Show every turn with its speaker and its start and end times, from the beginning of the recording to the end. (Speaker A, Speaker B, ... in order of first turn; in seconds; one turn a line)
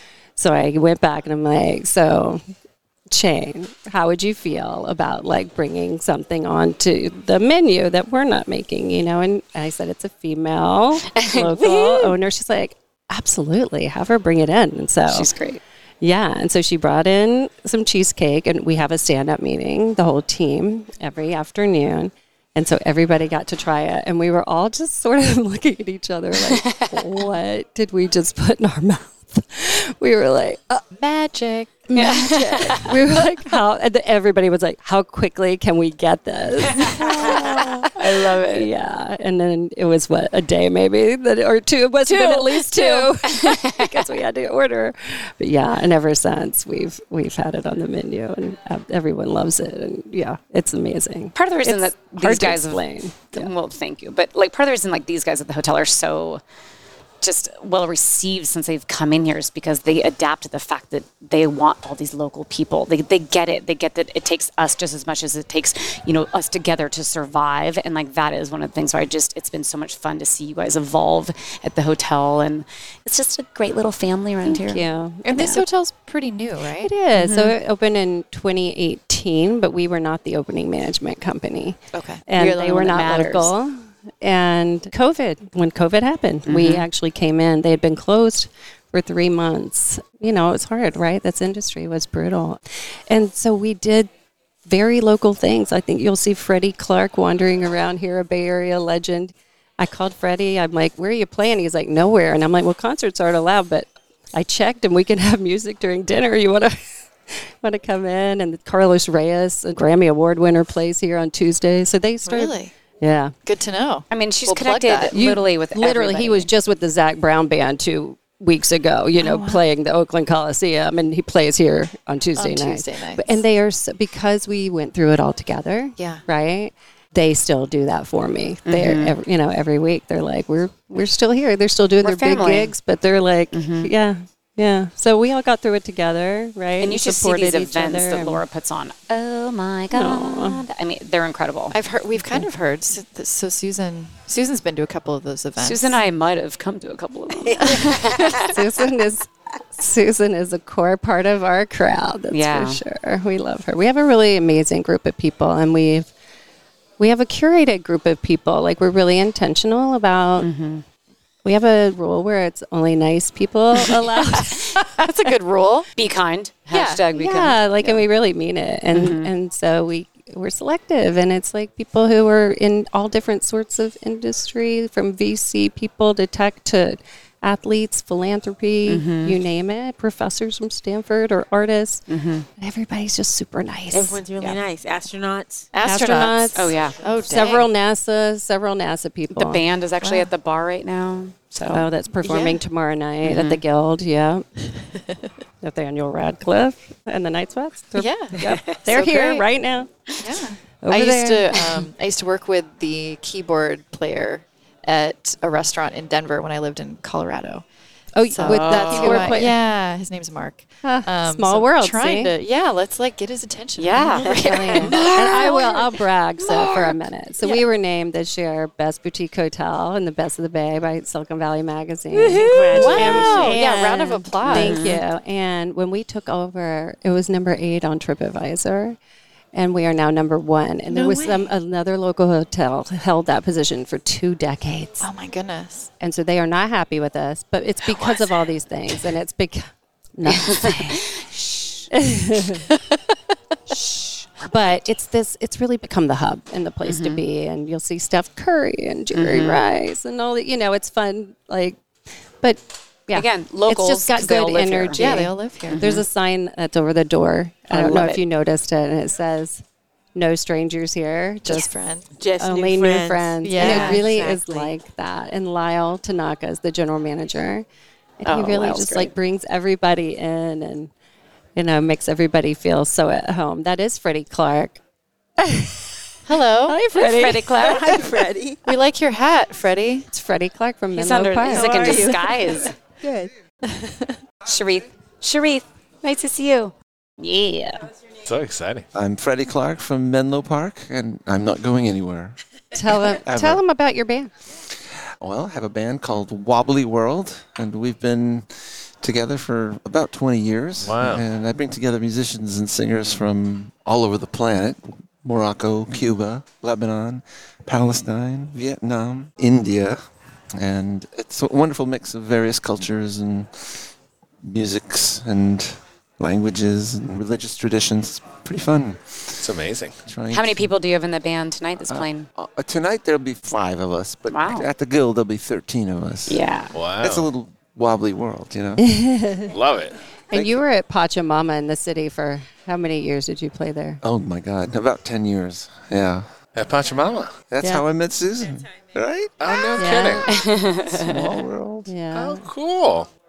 Speaker A: 0.4-2.4
Speaker A: 3.1-15.3
Speaker B: 11.1-12.2
Speaker B: 15.1-15.6
Speaker A: 16.0-30.8
Speaker B: 26.4-27.2
Speaker C: 31.0-31.8
Speaker A: 31.9-53.5
Speaker B: 31.9-33.0
Speaker B: 36.7-38.7
Speaker B: 42.1-44.2
Speaker B: 51.4-56.4
Speaker B: 57.2-75.6
Speaker A: 74.5-75.6
Speaker C: 75.2-76.9
Speaker A: 76.8-94.1
Speaker B: 77.1-77.6
Speaker C: 81.9-82.2
Speaker B: 82.4-83.5
Speaker B: 86.5-86.9
Speaker A: 94.7-113.3
Speaker C: 112.2-112.7
Speaker C: 113.5-115.2
Speaker B: 114.1-116.5
Speaker A: 115.1-138.4
Speaker C: 119.2-119.6
Speaker C: 122.4-123.4
Speaker C: 126.0-126.2
Speaker B: 128.7-129.2
Speaker B: 132.0-132.7
Speaker B: 133.5-133.9
Speaker B: 136.8-141.8
Speaker A: 139.9-140.6
Speaker C: 141.7-146.0
Speaker B: 145.6-148.6
Speaker D: 147.5-148.4
Speaker A: 147.8-156.1
Speaker B: 152.3-152.8
Speaker A: 157.0-160.5
Speaker B: 160.4-160.8
Speaker A: 161.4-164.8
Speaker C: 164.8-165.9
Speaker B: 166.0-168.0
Speaker C: 166.7-167.0
Speaker A: 167.1-182.0
Speaker B: 168.9-169.3
Speaker B: 178.9-179.4
Speaker B: 182.1-182.5
Speaker A: 182.6-184.2
Speaker D: 183.9-185.7
Speaker C: 185.7-187.7
Speaker A: 185.8-189.6
Speaker B: 186.6-187.0
Speaker B: 189.3-191.9
Speaker C: 190.0-190.3
Speaker A: 191.7-194.5
Speaker C: 192.2-192.6
Speaker B: 193.2-193.6
Speaker A: 195.6-199.9
Speaker C: 197.9-199.4
Speaker C: 200.2-207.7
Speaker A: 200.8-201.9
Speaker A: 208.2-209.6
Speaker C: 208.2-215.8
Speaker B: 208.4-209.5
Speaker A: 210.8-212.3
Speaker B: 213.8-215.4
Speaker D: 214.2-215.0
Speaker A: 214.4-229.0
Speaker D: 222.2-223.6
Speaker C: 222.7-225.0
Speaker B: 224.4-225.0
Speaker A: 229.5-235.1
Speaker C: 230.9-231.5
Speaker C: 235.0-235.9
Speaker A: 236.0-241.0
Speaker B: 240.2-241.9
Speaker A: 241.9-242.7
Speaker B: 243.7-244.8
Speaker A: 244.5-251.8
Speaker B: 246.9-247.2
Speaker B: 249.1-249.6
Speaker A: 252.4-259.6
Speaker B: 253.1-255.2
Speaker C: 254.9-255.8
Speaker B: 255.7-256.1
Speaker B: 257.7-258.2
Speaker A: 260.1-261.7
Speaker C: 261.4-262.1
Speaker D: 262.2-264.8
Speaker A: 262.4-267.7
Speaker C: 263.4-264.1
Speaker A: 268.2-270.9
Speaker B: 268.2-269.1
Speaker A: 271.6-274.8
Speaker A: 275.4-275.9
Speaker C: 276.3-276.8
Speaker A: 276.7-277.7
Speaker B: 276.9-278.1
Speaker D: 277.6-278.6
Speaker C: 278.6-280.1
Speaker A: 280.1-282.1
Speaker B: 280.9-282.7
Speaker D: 281.5-283.3
Speaker B: 284.5-287.9
Speaker E: 288.2-288.9
Speaker F: 288.9-292.4
Speaker A: 292.8-294.3
Speaker F: 293.2-293.6
Speaker F: 295.2-310.0
Speaker E: 300.8-301.2
Speaker F: 310.6-313.9
Speaker F: 314.4-319.5
Speaker E: 319.4-320.0
Speaker F: 320.1-320.7
Speaker B: 320.3-322.3
Speaker F: 321.9-326.4
Speaker B: 324.3-324.7
Speaker B: 326.3-326.7
Speaker E: 326.7-327.3
Speaker F: 327.0-328.8
Speaker A: 328.8-329.6
Speaker E: 329.5-330.0
Speaker A: 330.3-334.0
Speaker F: 330.3-330.6
Speaker F: 334.0-336.3
Speaker E: 336.5-337.4
Speaker F: 337.5-340.1
Speaker E: 339.4-340.3
Speaker A: 339.8-340.3
Speaker B: 340.3-341.4
Speaker F: 340.9-341.9
Speaker A: 341.9-342.5
Speaker E: 342.1-343.1